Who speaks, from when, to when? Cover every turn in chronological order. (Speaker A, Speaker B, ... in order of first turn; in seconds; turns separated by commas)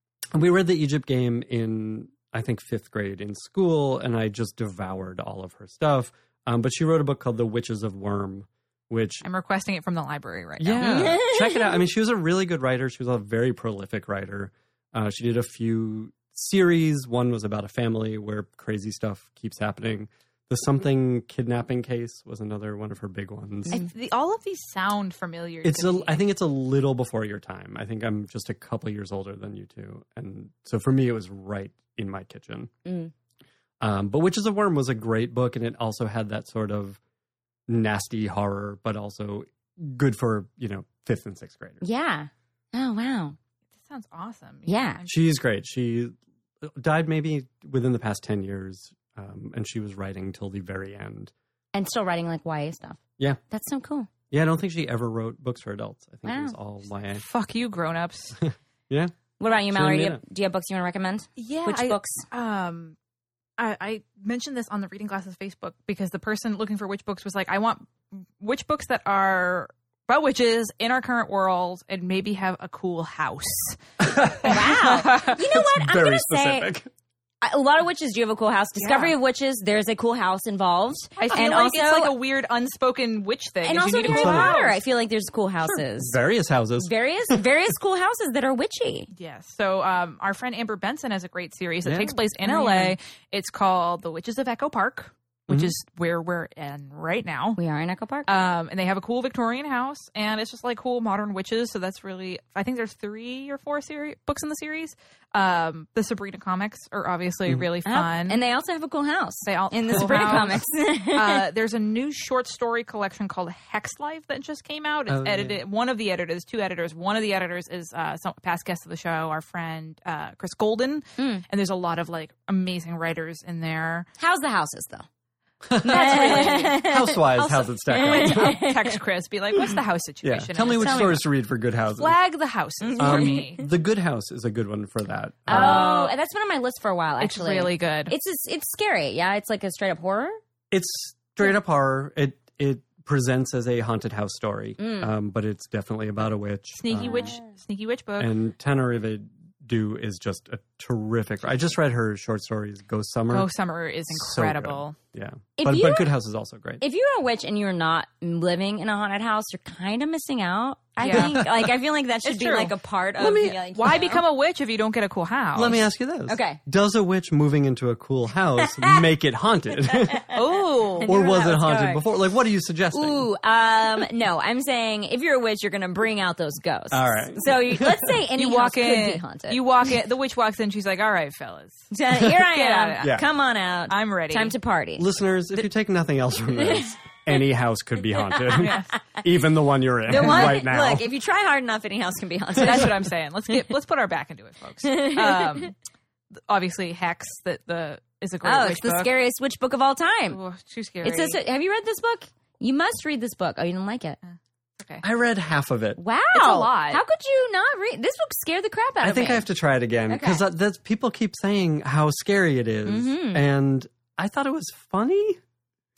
Speaker A: 0.3-9.2, Speaker B: 9.2-11.2, Speaker A: 10.6-23.8, Speaker C: 10.8-11.7, Speaker B: 23.7-26.2, Speaker A: 25.6-32.7, Speaker C: 32.9-33.1, Speaker A: 33.8-37.0, Speaker A: 37.7-41.8, Speaker C: 41.8-43.4, Speaker B: 43.8-45.2, Speaker C: 44.7-45.0, Speaker A: 45.0-51.3, Speaker C: 51.7-53.0, Speaker C: 53.5-54.1, Speaker A: 54.3-57.2, Speaker C: 56.2-56.5, Speaker B: 57.1-58.4, Speaker A: 58.4-60.2, Speaker C: 59.4-62.2, Speaker B: 61.4-63.0, Speaker B: 63.6-73.8, Speaker A: 74.0-76.9, Speaker C: 74.4-76.7, Speaker B: 75.0-75.3, Speaker C: 77.4-82.1, Speaker B: 78.8-79.1, Speaker B: 81.2-84.8, Speaker C: 83.6-86.2, Speaker A: 84.0-84.6, Speaker A: 85.6-87.4, Speaker C: 86.8-89.1, Speaker B: 89.1-97.6, Speaker A: 91.8-92.2, Speaker C: 92.4-93.0, Speaker A: 95.5-95.7, Speaker C: 97.6-98.3, Speaker B: 98.3-108.4, Speaker C: 107.8-111.4, Speaker B: 109.4-124.1, Speaker A: 109.9-110.5, Speaker A: 115.1-115.6, Speaker C: 121.2-121.4, Speaker C: 124.2-125.0, Speaker A: 125.7-128.6, Speaker B: 125.8-126.8, Speaker C: 125.8-127.2, Speaker B: 127.4-131.2, Speaker C: 127.9-129.0, Speaker A: 130.2-132.2, Speaker C: 130.6-131.2, Speaker B: 132.0-133.6, Speaker C: 132.8-133.5, Speaker A: 133.0-136.0, Speaker B: 135.5-136.1, Speaker C: 135.5-140.4, Speaker B: 137.2-138.1, Speaker A: 140.7-147.3, Speaker C: 144.8-145.1, Speaker B: 146.7-148.3, Speaker C: 147.0-147.4, Speaker A: 148.2-153.5, Speaker B: 153.3-154.9, Speaker A: 154.1-156.8, Speaker C: 155.6-156.1, Speaker C: 156.8-164.2, Speaker B: 161.0-161.4, Speaker A: 161.1-161.5, Speaker B: 162.2-162.7, Speaker A: 163.2-163.6, Speaker B: 163.7-165.8, Speaker A: 165.5-170.3, Speaker C: 166.3-166.6, Speaker B: 170.3-171.1, Speaker C: 171.0-172.0, Speaker A: 171.0-173.3, Speaker C: 172.9-179.6, Speaker A: 176.9-178.1, Speaker B: 178.3-183.1, Speaker C: 181.9-185.1, Speaker B: 183.9-184.5, Speaker A: 185.0-191.1, Speaker C: 186.6-186.8, Speaker B: 188.6-188.9, Speaker C: 190.1-193.0, Speaker B: 190.2-190.5, Speaker B: 192.6-195.7, Speaker C: 194.8-195.7, Speaker B: 196.5-199.1, Speaker C: 198.4-200.4, Speaker B: 200.3-201.4, Speaker C: 201.0-204.2, Speaker B: 204.2-205.0, Speaker A: 205.0-206.0, Speaker C: 206.0-209.4, Speaker B: 206.3-207.0, Speaker A: 209.0-215.4, Speaker C: 210.1-210.4, Speaker C: 212.8-213.4